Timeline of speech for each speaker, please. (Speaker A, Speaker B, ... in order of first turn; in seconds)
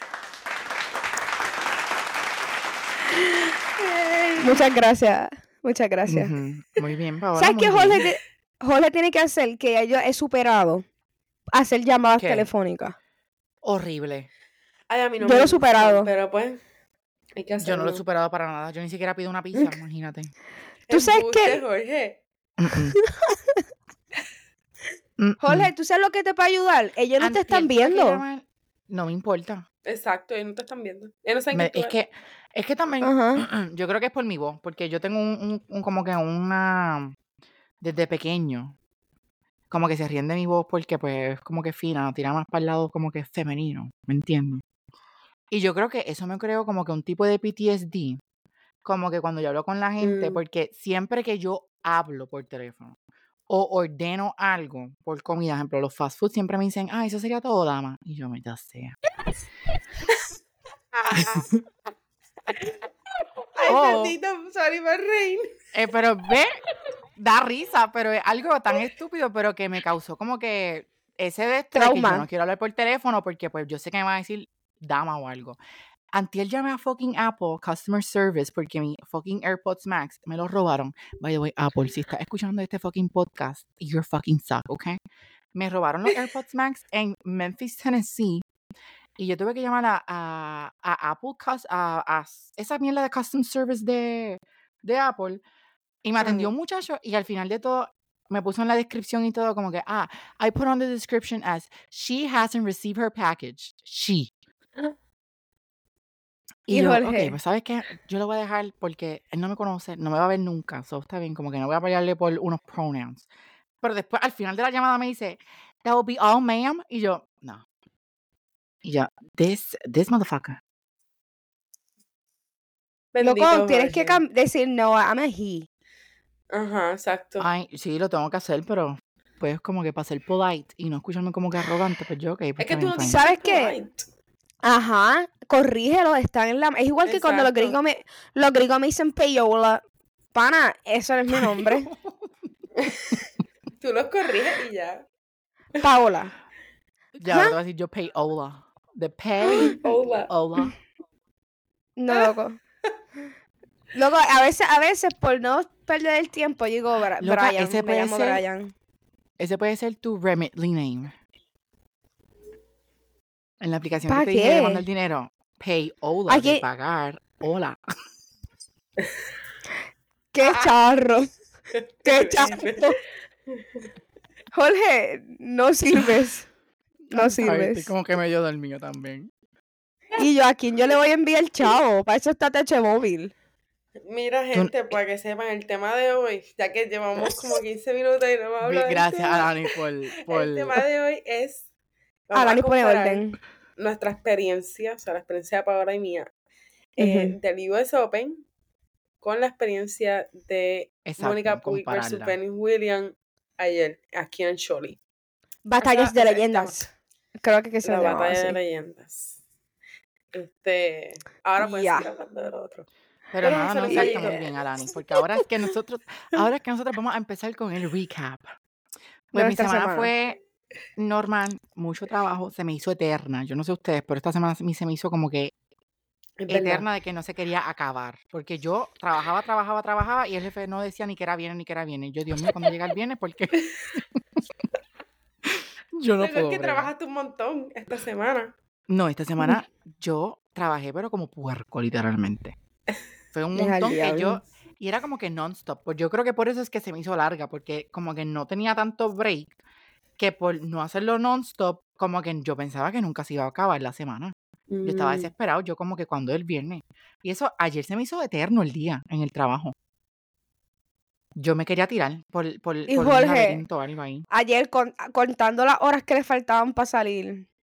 Speaker A: 3.1-4.6, 14.9-16.6, 17.4-18.0, 20.9-22.2, 29.9-31.9, 50.0-50.4, 61.0-61.5, 63.5-65.5, 96.2-96.5, 123.1-124.2, 126.5-127.5, 132.6-134.1, 137.1-137.8, 142.8-143.2, 143.8-145.1, 149.7-150.3, 170.4-170.7, 171.7-173.0, 173.6-173.9, 184.1-189.6, 190.2-191.7, 192.3-193.2, 193.8-196.3, 197.0-198.4, 199.2-205.0, 205.8-206.9, 207.8-209.4, 210.3-212.9, 213.4-214.5, 226.4-226.8, 236.2-238.5, 254.7-255.3
Speaker B: 4.4-6.3, 7.4-10.8, 11.5-13.0, 15.2-16.1, 20.9-21.6, 23.0-23.6, 25.4-28.2, 33.0-33.5, 71.7-72.3, 106.7-107.4, 123.2-125.7, 133.0-133.8, 134.6-139.8, 140.3-141.9, 145.8-146.3, 147.3-147.6, 152.0-152.6, 153.9-158.7, 164.1-164.8, 166.3-166.7, 170.3-171.3, 172.0-173.0, 174.5-176.5, 177.1-177.9, 180.2-183.3, 192.3-193.4, 197.0-197.3, 205.7-206.9, 207.4-208.6, 211.6-212.1, 213.9-214.4, 219.3-220.1, 243.6-244.4, 262.9-263.6, 264.3-267.5
Speaker C: 6.1-8.1, 12.2-12.5, 13.6-14.3, 17.6-20.3, 22.6-23.0, 25.2-25.7, 27.2-29.7, 31.5-37.1, 37.8-38.8, 39.7-44.6, 45.5-48.2, 48.9-53.0, 53.5-59.0, 63.7-64.2, 65.7-66.6, 67.2-75.6, 76.1-85.0, 85.5-88.4, 89.2-95.4, 96.0-104.3, 106.7-113.3, 113.8-117.7, 118.8-120.6, 127.4-133.2, 141.9-142.2, 147.2-150.8, 157.2-158.4, 159.4-161.2, 163.6-167.8, 177.1-179.3, 188.6-190.8, 201.1-202.3, 213.3-218.5, 219.3-220.4, 221.0-225.5, 226.5-234.2, 235.9-236.9, 238.9-242.6, 243.3-249.5, 250.2-259.8, 261.4-264.2